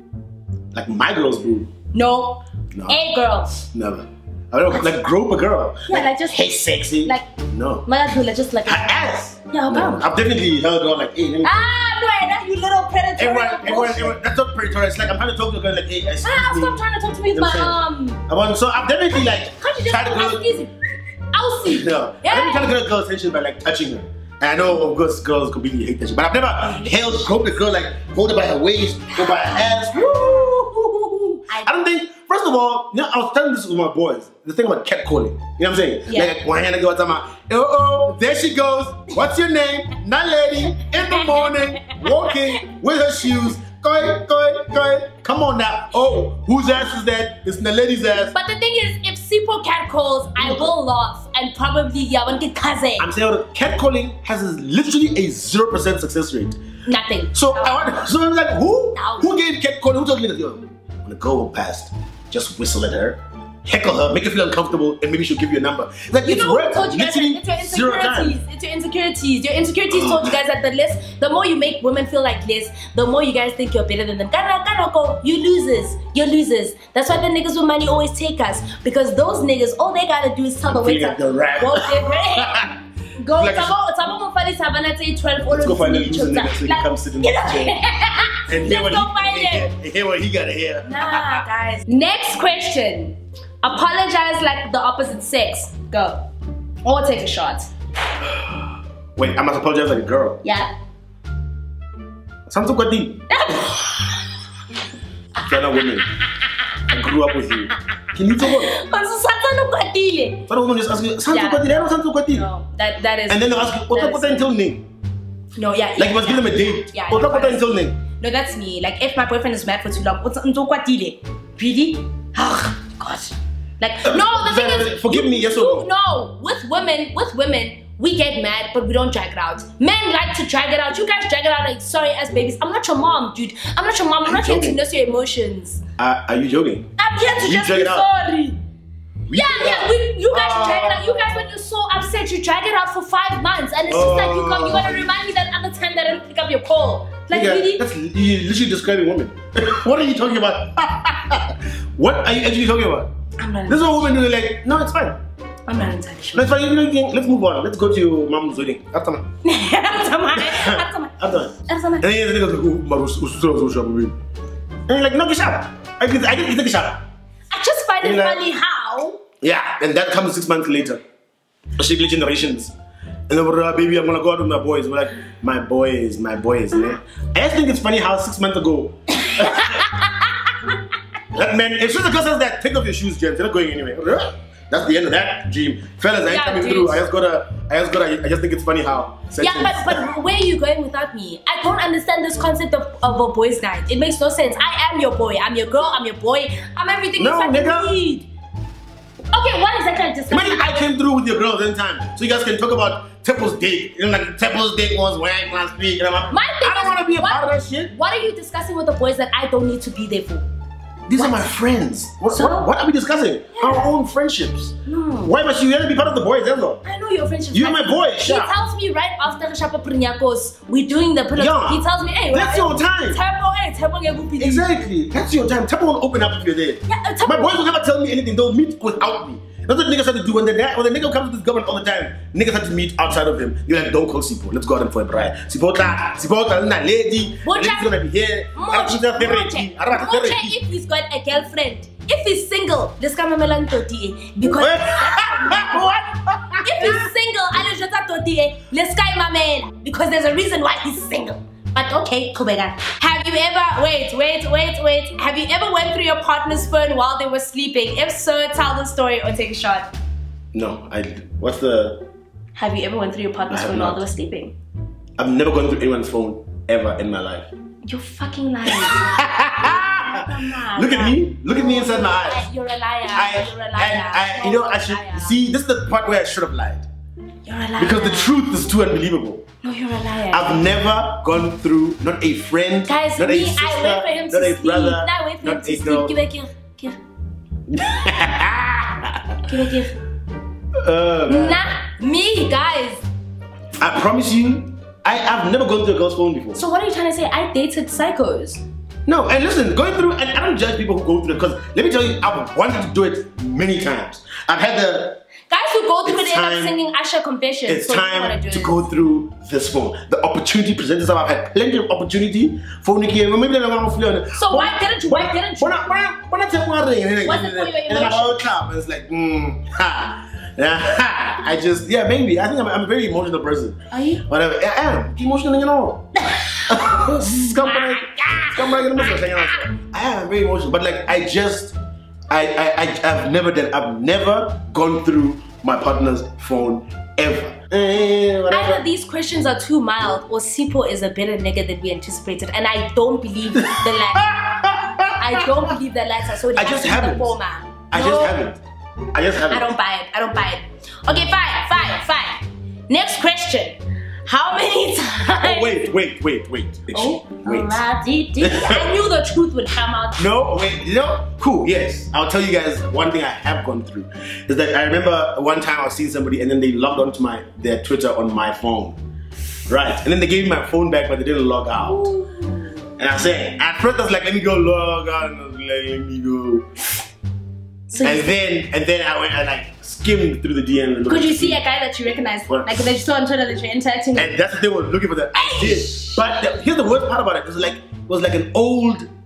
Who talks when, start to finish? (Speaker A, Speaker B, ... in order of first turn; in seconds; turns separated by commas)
Speaker A: 0.7-1.7, Speaker B: 1.9-3.6, Speaker A: 2.7-3.0, Speaker A: 3.7-7.8, Speaker B: 5.9-7.3, Speaker B: 7.8-8.9, Speaker A: 8.7-11.5, Speaker B: 9.5-10.1, Speaker B: 11.4-14.2, Speaker A: 13.2-20.5, Speaker B: 16.2-18.2, Speaker B: 19.1-20.7, Speaker B: 21.3-22.7, Speaker A: 21.7-48.3, Speaker B: 26.6-27.4, Speaker B: 29.1-30.5, Speaker B: 31.5-31.8, Speaker B: 36.1-36.4, Speaker B: 41.0-42.6, Speaker B: 48.3-53.1, Speaker A: 50.4-50.7, Speaker A: 53.0-56.6, Speaker B: 56.9-57.8, Speaker A: 57.3-68.4, Speaker B: 59.0-59.3, Speaker B: 66.2-89.7, Speaker A: 69.9-70.4, Speaker A: 80.7-82.8, Speaker A: 83.3-83.8, Speaker A: 85.5-87.8, Speaker A: 88.5-91.4, Speaker B: 90.9-96.2, Speaker B: 96.8-97.7, Speaker A: 98.2-98.6, Speaker A: 99.2-100.4, Speaker B: 100.4-100.7, Speaker A: 102.5-103.3, Speaker B: 103.3-104.3, Speaker A: 105.5-106.0, Speaker A: 106.9-108.8, Speaker B: 108.4-110.5, Speaker A: 110.5-112.5, Speaker B: 111.3-114.5, Speaker A: 113.3-114.8, Speaker B: 115.6-135.8, Speaker A: 116.0-118.0, Speaker A: 124.0-125.9, Speaker A: 134.2-134.8, Speaker A: 136.0-138.1, Speaker B: 137.0-138.6, Speaker A: 139.3-141.4, Speaker B: 139.3-147.8, Speaker A: 143.9-145.1, Speaker A: 147.3-153.1, Speaker B: 153.4-154.1, Speaker A: 153.7-155.2, Speaker B: 155.7-156.5, Speaker A: 156.3-159.2, Speaker B: 159.4-162.1, Speaker A: 160.3-164.2, Speaker A: 164.9-167.0, Speaker B: 167.5-169.2, Speaker A: 168.0-168.4, Speaker A: 169.4-171.0, Speaker A: 171.8-172.7, Speaker A: 173.3-180.0, Speaker B: 179.2-180.7, Speaker A: 181.3-190.1, Speaker B: 186.3-187.0, Speaker B: 189.4-198.3, Speaker A: 197.2-197.9, Speaker B: 199.3-200.8, Speaker A: 200.3-207.9, Speaker B: 206.3-210.5, Speaker A: 211.1-216.8, Speaker B: 211.2-211.5, Speaker B: 212.3-212.7, Speaker B: 213.5-213.9, Speaker B: 214.9-215.3, Speaker B: 216.8-224.7, Speaker A: 217.5-218.6, Speaker A: 221.3-223.2, Speaker A: 224.4-240.6, Speaker B: 226.9-227.6, Speaker B: 237.4-237.9, Speaker B: 238.6-245.8, Speaker A: 244.4-247.1, Speaker B: 246.6-259.9, Speaker A: 260.5-262.0, Speaker B: 262.6-264.6, Speaker A: 263.5-264.0, Speaker A: 265.2-267.5, Speaker B: 267.9-275.4, Speaker A: 268.7-272.5, Speaker A: 273.1-276.9, Speaker B: 277.5-278.4, Speaker A: 277.8-279.5, Speaker B: 279.6-280.6, Speaker A: 280.3-286.1, Speaker B: 282.9-287.0, Speaker A: 287.7-289.4, Speaker B: 289.5-290.0, Speaker A: 290.8-291.7, Speaker B: 291.3-293.0, Speaker A: 293.8-296.6, Speaker B: 296.6-298.6, Speaker A: 299.1-305.2, Speaker B: 305.5-308.8, Speaker A: 306.1-306.8, Speaker A: 307.7-331.8, Speaker B: 314.4-315.9, Speaker B: 317.2-318.4, Speaker B: 323.9-324.2, Speaker B: 326.2-329.7, Speaker A: 332.3-338.9, Speaker B: 338.5-344.3, Speaker A: 343.6-345.8, Speaker B: 345.2-348.4, Speaker A: 346.5-347.4, Speaker A: 347.9-348.6, Speaker A: 349.1-349.7, Speaker B: 349.5-355.9, Speaker A: 355.3-357.8, Speaker B: 356.9-360.3, Speaker A: 358.4-359.0, Speaker A: 360.2-369.0, Speaker A: 369.7-372.1, Speaker B: 371.8-372.8, Speaker A: 373.0-376.7, Speaker B: 377.9-378.3, Speaker A: 378.0-381.6, Speaker B: 381.1-384.3, Speaker A: 382.5-382.9, Speaker A: 384.1-389.1, Speaker B: 385.3-386.2